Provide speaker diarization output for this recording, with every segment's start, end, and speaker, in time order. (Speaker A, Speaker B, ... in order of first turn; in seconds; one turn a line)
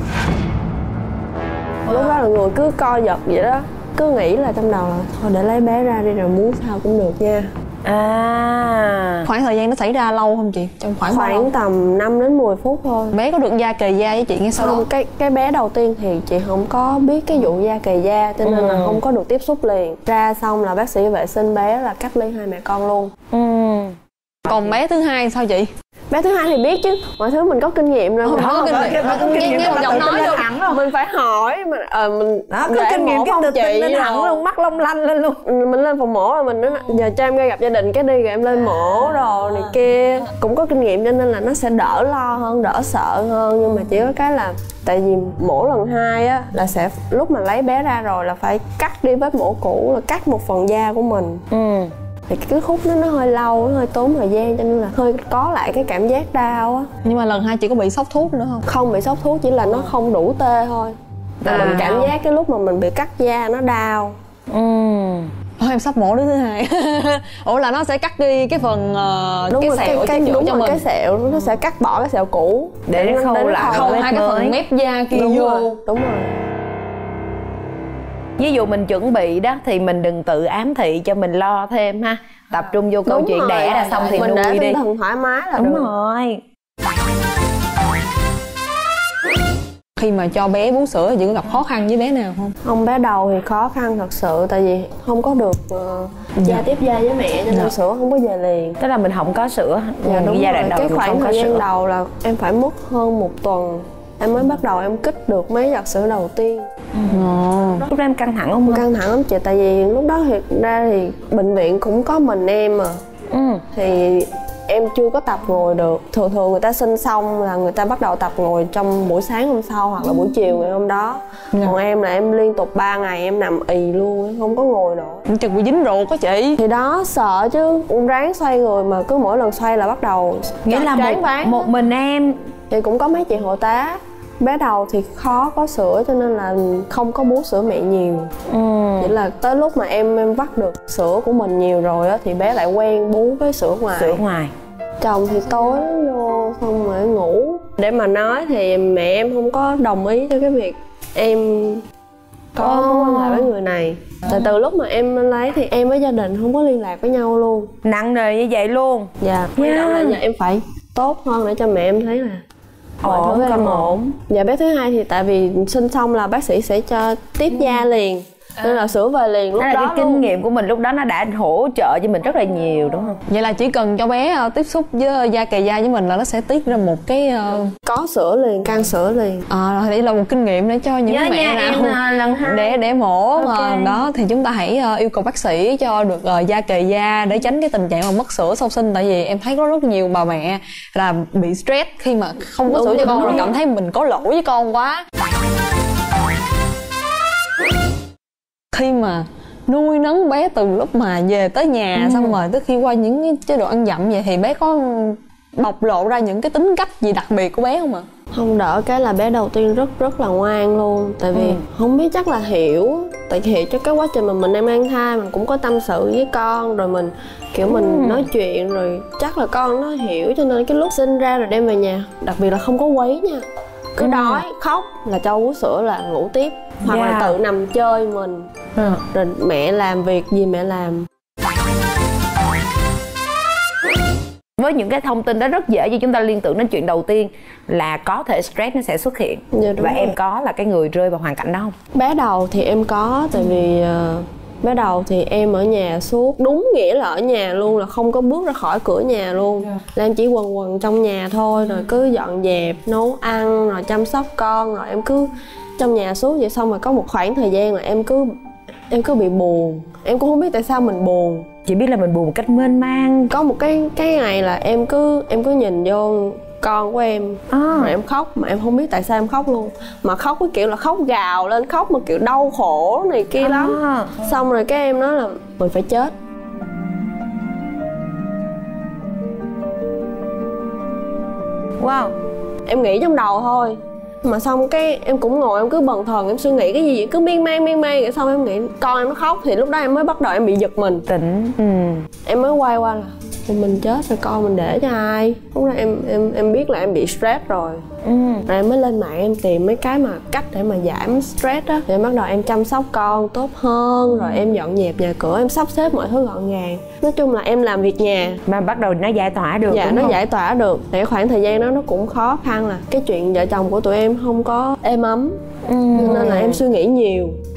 Speaker A: 1.9-2.1
Speaker B: 1.9-7.5
Speaker A: 7.8-9.3
Speaker C: 9.2-11.5
Speaker B: 11.1-13.2
Speaker C: 13.1-14.8
Speaker B: 14.5-23.1
Speaker A: 18.4-19.0
Speaker A: 23.3-23.9
Speaker C: 24.4-25.7
Speaker B: 26.1-34.4
Speaker C: 28.2-30.5
Speaker A: 28.3-30.8
Speaker A: 32.5-35.4
Speaker B: 35.4-51.4
Speaker A: 51.5-51.9
Speaker B: 52.3-56.9
Speaker C: 57.0-58.6
Speaker B: 58.6-64.1
Speaker C: 61.4-62.1
Speaker A: 61.4-62.0
Speaker A: 64.5-65.3
Speaker C: 65.6-70.8
Speaker B: 69.5-74.1
Speaker A: 72.9-74.6
Speaker C: 73.6-75.8
Speaker B: 75.1-76.3
Speaker A: 78.4-84.8
Speaker B: 83.0-85.9
Speaker A: 85.6-86.4
Speaker C: 90.0-92.5
Speaker B: 92.6-98.8
Speaker A: 96.4-96.7
Speaker A: 98.8-101.6
Speaker B: 100.0-106.7
Speaker C: 107.1-107.9
Speaker B: 107.5-107.9
Speaker A: 107.8-108.8
Speaker B: 108.7-113.0
Speaker A: 113.3-113.6
Speaker B: 113.7-125.2
Speaker C: 125.3-126.6
Speaker B: 126.6-131.6
Speaker A: 130.6-132.4
Speaker B: 132.7-138.3
Speaker A: 138.5-139.1
Speaker B: 139.0-144.2
Speaker A: 143.9-144.5
Speaker B: 145.0-151.8
Speaker B: 152.5-157.7
Speaker A: 152.6-153.5
Speaker A: 157.8-160.2
Speaker B: 159.2-162.4
Speaker A: 163.0-163.9
Speaker B: 163.0-170.3
Speaker A: 169.6-173.2
Speaker C: 173.3-177.7
Speaker B: 177.8-179.4
Speaker C: 179.5-195.0
Speaker A: 181.1-182.8
Speaker A: 183.3-184.0
Speaker B: 192.7-193.5
Speaker A: 193.0-193.5
Speaker C: 198.7-208.1
Speaker A: 201.9-202.4
Speaker B: 208.3-228.5
Speaker A: 211.3-211.6
Speaker A: 217.7-218.3
Speaker A: 224.0-224.4
Speaker A: 226.8-227.4
Speaker B: 229.1-231.1
Speaker A: 234.6-241.7
Speaker B: 239.5-240.1
Speaker B: 241.9-258.3
Speaker B: 258.9-261.5
Speaker A: 261.6-263.3
Speaker B: 263.3-276.1
Speaker A: 267.5-267.9
Speaker A: 273.4-274.1
Speaker A: 281.8-282.1
Speaker B: 282.6-291.1
Speaker A: 291.1-292.1
Speaker B: 292.2-297.8
Speaker A: 298.0-298.5
Speaker B: 298.5-308.4
Speaker A: 308.4-310.2
Speaker B: 309.7-317.4
Speaker A: 315.6-316.6